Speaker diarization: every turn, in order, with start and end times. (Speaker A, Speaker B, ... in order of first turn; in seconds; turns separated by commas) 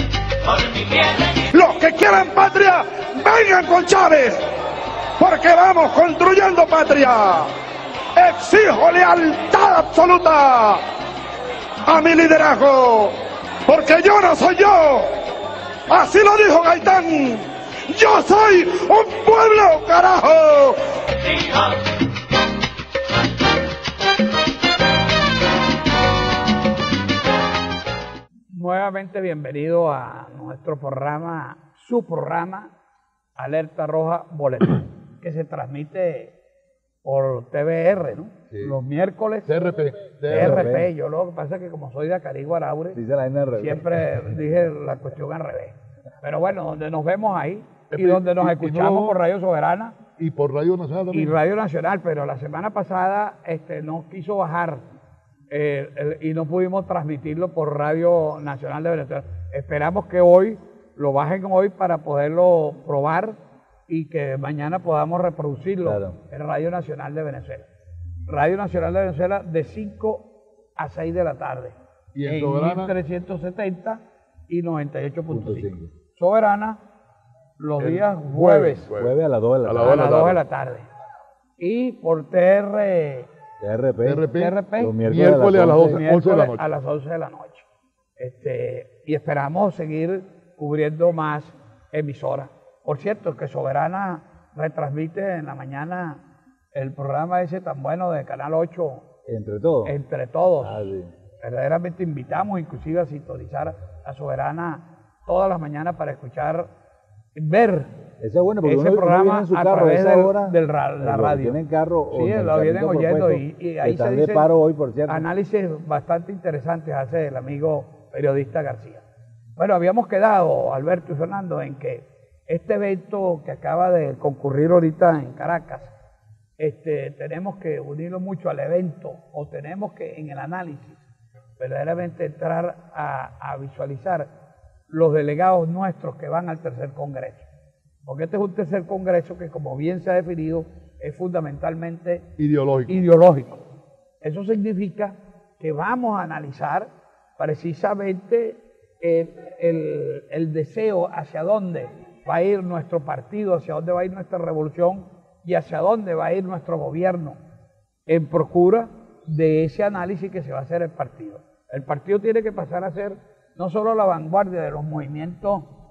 Speaker A: 0.5-4.5, Speaker A: 5.2-7.5, Speaker A: 8.2-10.8, Speaker A: 11.9-15.1, Speaker A: 15.9-20.8, Speaker B: 28.5-32.7, Speaker B: 33.4-36.4, Speaker B: 37.0-39.7, Speaker C: 38.5-38.8, Speaker C: 39.5-40.7, Speaker D: 40.3-40.9, Speaker B: 40.3-43.0, Speaker D: 42.9-43.9, Speaker B: 43.5-50.0, Speaker C: 47.9-49.2, Speaker C: 50.2-51.4, Speaker B: 51.1-54.8, Speaker B: 55.5-67.7, Speaker D: 65.8-66.2, Speaker B: 68.3-76.8, Speaker C: 72.1-72.9, Speaker D: 75.3-75.9, Speaker B: 77.6-78.9, Speaker C: 77.8-80.4, Speaker D: 79.0-80.1, Speaker B: 79.8-80.9, Speaker B: 81.6-83.3, Speaker D: 83.6-86.0, Speaker C: 84.1-86.7, Speaker B: 84.3-85.0, Speaker B: 85.8-87.7, Speaker B: 88.2-96.2, Speaker B: 96.7-99.1, Speaker D: 99.3-100.0, Speaker B: 99.8-106.7, Speaker D: 100.6-101.1, Speaker B: 107.3-107.9, Speaker D: 108.2-115.3, Speaker B: 108.6-114.5, Speaker B: 115.1-119.0, Speaker B: 119.6-125.9, Speaker B: 126.6-131.1, Speaker B: 131.6-134.3, Speaker B: 134.9-137.5, Speaker B: 138.0-142.3, Speaker C: 142.4-143.0, Speaker B: 142.9-143.6, Speaker B: 144.2-157.4, Speaker B: 158.1-165.7